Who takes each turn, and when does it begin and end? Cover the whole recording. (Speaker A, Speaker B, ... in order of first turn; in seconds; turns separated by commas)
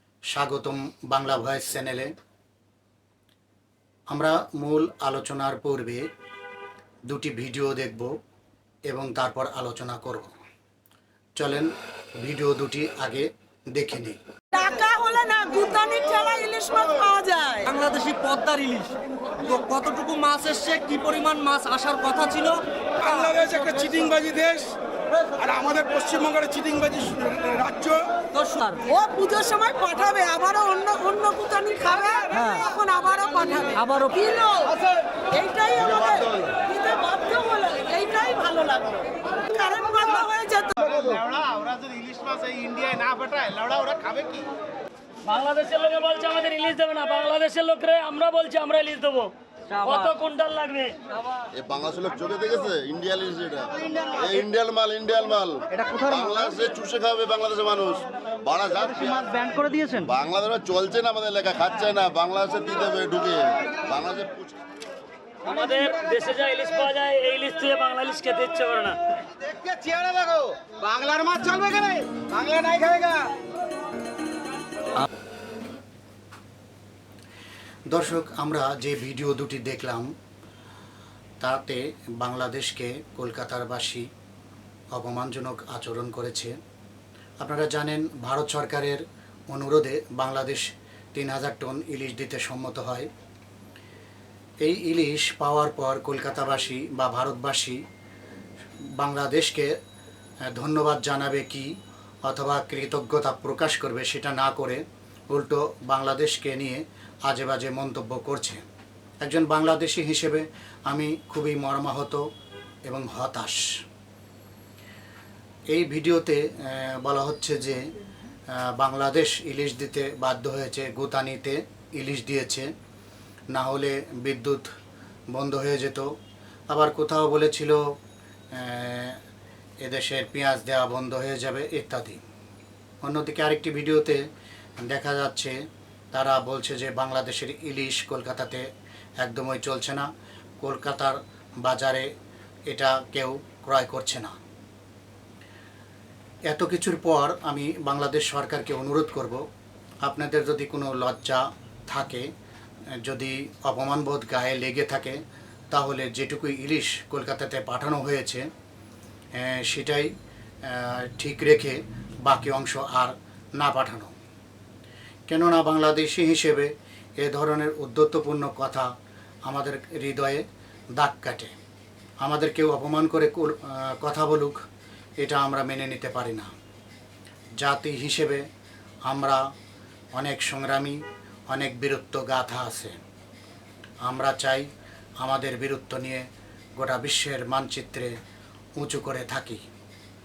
Speaker A: 0.3-2.1, Speaker A: 4.1-6.0, Speaker A: 7.1-8.1, Speaker A: 8.9-10.3, Speaker A: 11.4-14.2, Speaker B: 14.5-17.8, Speaker C: 17.8-22.6, Speaker D: 23.1-24.8, Speaker D: 25.4-28.3, Speaker C: 28.3-28.8, Speaker B: 28.8-41.3, Speaker D: 41.3-44.5, Speaker E: 41.6-44.5, Speaker F: 45.2-51.0, Speaker G: 51.5-64.6, Speaker F: 65.4-69.0, Speaker E: 69.7-70.3, Speaker D: 70.2-73.3, Speaker E: 71.0-72.9, Speaker A: 77.9-80.1, Speaker A: 81.4-84.1, Speaker A: 84.9-86.5, Speaker A: 87.4-93.1, Speaker A: 94.6-97.8, Speaker A: 99.0-99.7, Speaker A: 100.5-101.7, Speaker A: 102.3-108.6, Speaker A: 109.2-112.2, Speaker A: 112.9-113.7, Speaker A: 115.7-117.8, Speaker A: 118.5-122.7, Speaker A: 123.5-124.7, Speaker A: 125.3-126.1, Speaker A: 126.7-127.8, Speaker A: 128.5-129.2, Speaker A: 129.8-132.2, Speaker A: 133.0-134.2, Speaker A: 134.8-135.6, Speaker A: 136.1-138.7, Speaker A: 139.2-140.1, Speaker A: 140.6-142.1, Speaker A: 142.7-144.4, Speaker A: 146.5-149.4, Speaker A: 150.1-152.3, Speaker A: 153.0-155.2, Speaker A: 155.7-158.4, Speaker A: 159.4-160.1, Speaker A: 160.7-164.1, Speaker A: 165.3-168.9, Speaker A: 169.5-170.4, Speaker A: 171.0-171.5, Speaker A: 172.2-174.6, Speaker A: 175.2-176.5, Speaker A: 177.6-178.4, Speaker A: 179.1-179.4, Speaker A: 180.2-183.0, Speaker A: 184.1-184.7, Speaker A: 185.2-186.3, Speaker A: 186.8-188.1, Speaker A: 188.8-189.6